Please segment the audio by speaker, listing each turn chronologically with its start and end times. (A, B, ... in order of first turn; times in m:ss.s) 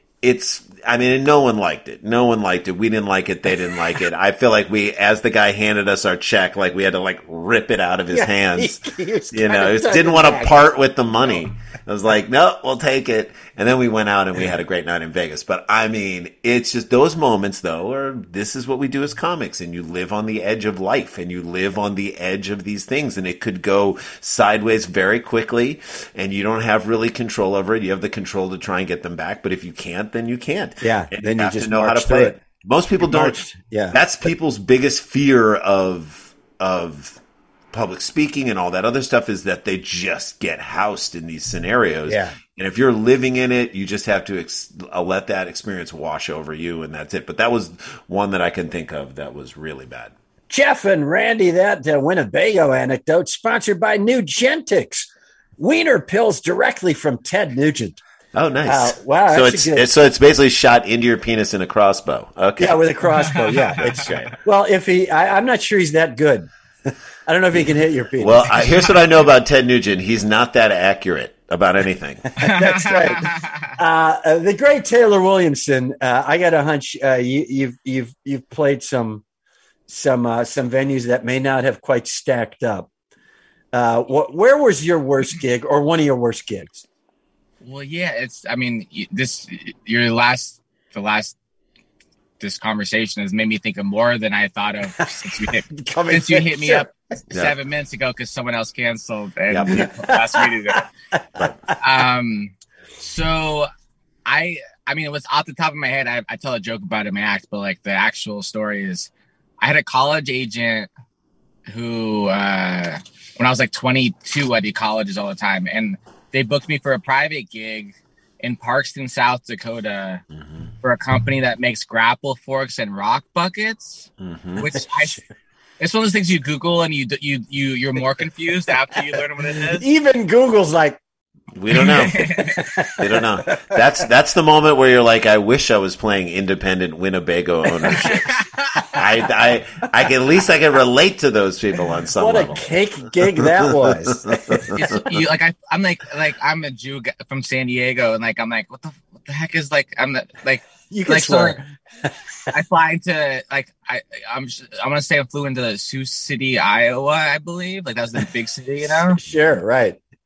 0:00.2-0:50.1 A
0:08.1-0:10.6 B
0:30.8-0:32.4 B
0:33.0-0:34.0 B
0:42.1-0:42.4 B
0:50.5-0:58.0 B
0:58.3-1:02.8 A
0:58.6-0:59.8 B
1:02.6-1:06.5 B
1:03.8-1:04.3 A
1:07.2-1:08.7 B
1:07.5-1:12.2 A
1:12.3-1:19.2 B
1:12.4-1:13.6 C
1:19.9-1:22.9 B
1:23.7-1:26.8 B
1:27.6-1:31.4 C
1:32.4-1:40.9 C
1:35.0-1:36.9 B
1:39.5-1:39.8 A
1:39.7-1:41.5 B
1:41.8-1:43.7 C
1:44.2-1:49.1 C
1:49.6-1:50.9 C
1:51.7-2:00.2 C
2:00.8-2:05.2 C
2:04.2-2:04.7 A
2:05.8-2:09.8 C
2:09.6-2:11.0 B
2:11.5-2:12.4 A
2:11.8-2:12.5 C
2:12.1-2:13.7 B
2:12.9-2:18.4 A
2:18.1-2:18.8 C
2:18.9-2:22.7 A
2:22.2-2:24.7 B
2:23.7-2:25.2 A
2:24.7-2:31.6 C
2:30.9-2:32.5 B
2:32.5-2:39.2 C
2:39.1-2:40.0 B